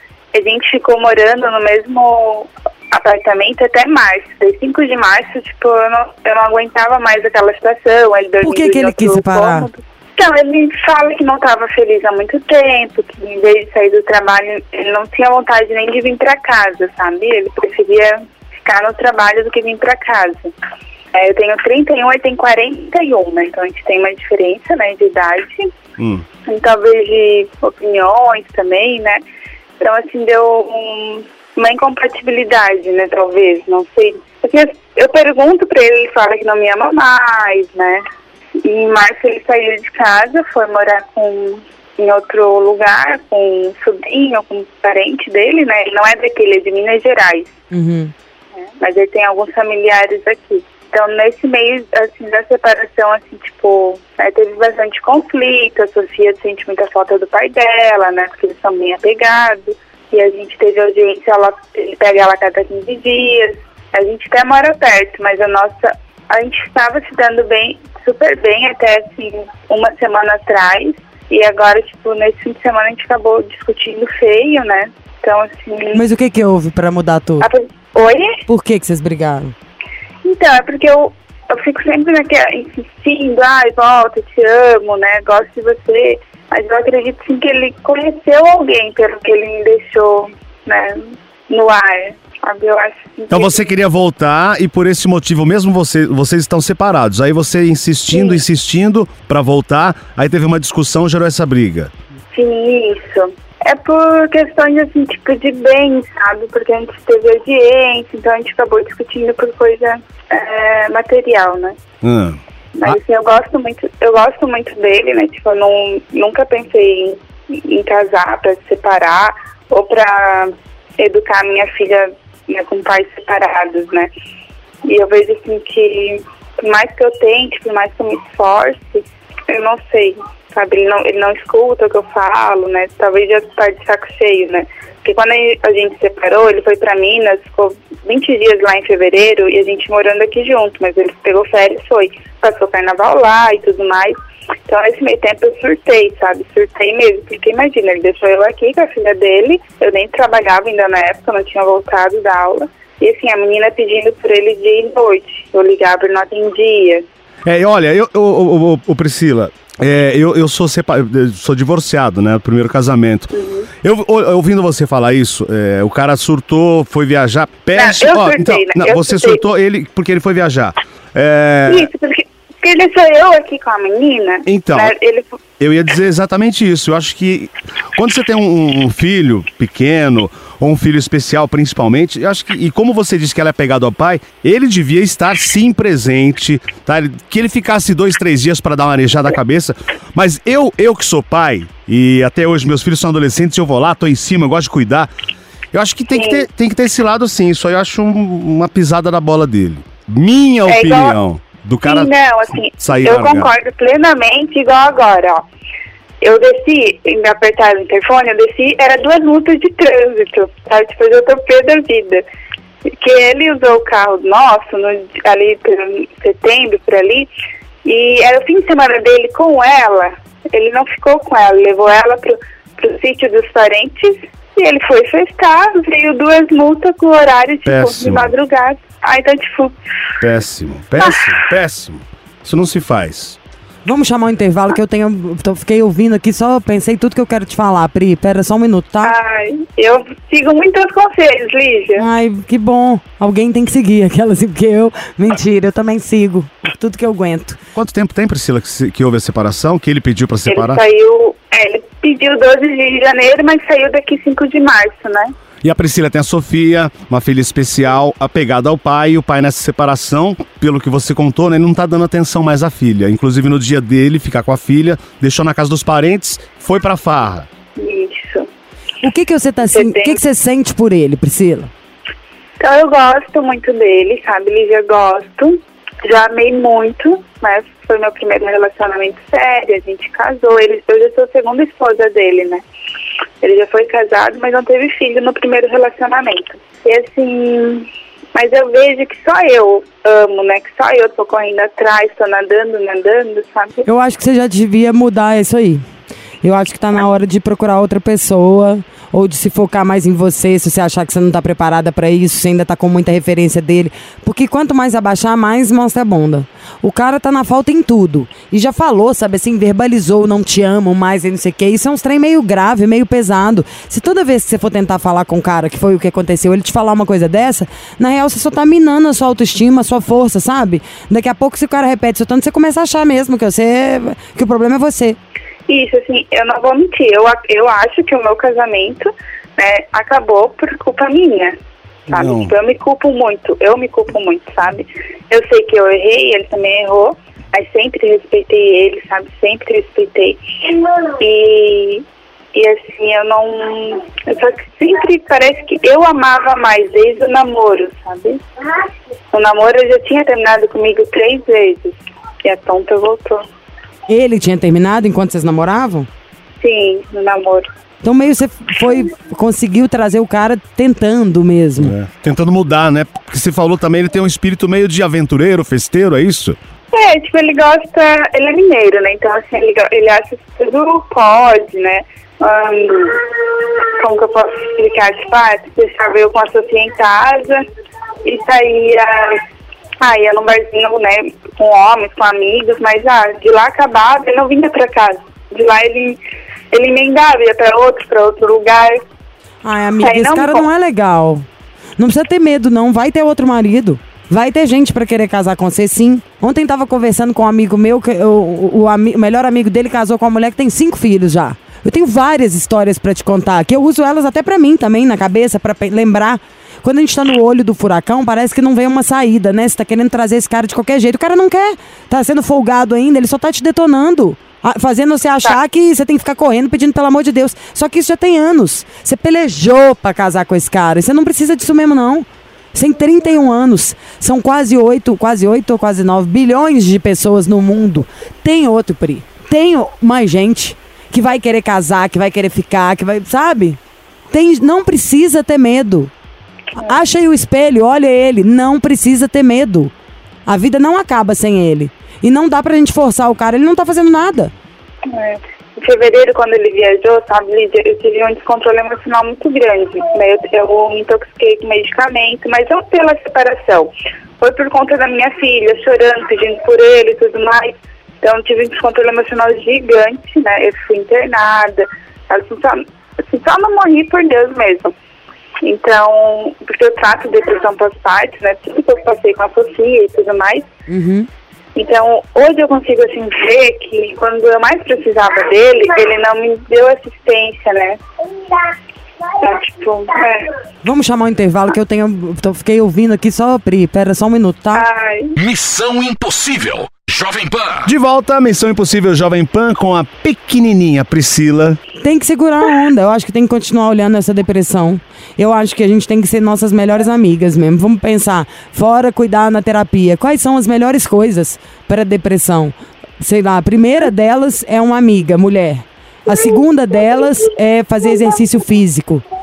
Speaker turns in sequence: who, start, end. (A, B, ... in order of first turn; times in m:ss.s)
0:00.3-0:20.5 A
0:08.4-0:09.7 B
0:21.1-0:25.7 A
0:26.0-0:26.2 C
0:26.4-0:29.2 A
0:29.8-0:38.0 A
0:38.6-0:47.6 A
0:47.7-0:48.1 B
0:48.7-1:16.0 A
1:15.9-1:17.5 B
1:17.4-1:18.4 A
1:18.5-1:19.5 B
1:20.2-1:33.6 A
1:33.3-1:41.9 C
1:42.3-1:51.8 A
1:52.0-1:53.0 C
1:52.8-2:04.1 A
2:04.8-2:24.2 A
2:24.7-2:37.0 A
2:37.4-2:51.9 C
2:43.3-2:43.7 A
2:47.7-2:49.4 A
2:51.7-2:55.3 A
2:54.4-2:54.9 C
2:55.6-3:15.1 C
3:15.7-3:22.1 C
3:16.1-3:16.4 A
3:20.7-3:21.2 A
3:21.8-3:25.4 A
3:22.7-3:23.5 C
3:26.2-3:32.2 A
3:32.9-3:37.3 A
3:37.8-3:49.7 A
3:47.6-3:48.3 C
3:50.2-3:53.4 C
3:53.8-3:59.1 B
3:59.0-4:02.0 A
4:02.0-4:07.6 B
4:07.7-4:10.8 C
4:10.5-4:15.3 A
4:15.6-4:27.5 C
4:27.8-4:28.5 A
4:29.0-4:31.7 B
4:29.7-4:30.2 A
4:32.6-4:42.6 A
4:43.4-4:53.8 A
4:53.8-4:55.8 B
4:56.4-5:25.2 B
5:25.7-5:31.5 A
5:32.1-5:48.4 A
5:32.1-5:32.5 C
5:49.3-5:53.4 A
5:54.1-5:56.1 B
5:56.6-5:57.6 A
5:58.0-6:01.9 B
6:01.8-6:06.6 C
6:06.9-6:17.6 A
6:18.2-6:19.4 A
6:20.0-6:26.2 A
6:26.7-6:29.0 A
6:29.6-6:31.4 B
6:30.0-6:30.7 A
6:32.0-7:13.8 B
7:14.3-7:16.1 B
7:16.8-7:19.9 B
7:20.4-7:24.5 B
7:25.0-7:44.9 A
7:45.6-7:50.7 A
7:50.9-7:51.3 B
7:51.8-7:58.0 A
7:59.4-8:00.5 A
8:00.8-8:04.8 B
8:04.7-8:05.4 A
8:05.4-8:07.9 D
8:07.8-8:11.8 C
8:12.0-8:29.2 B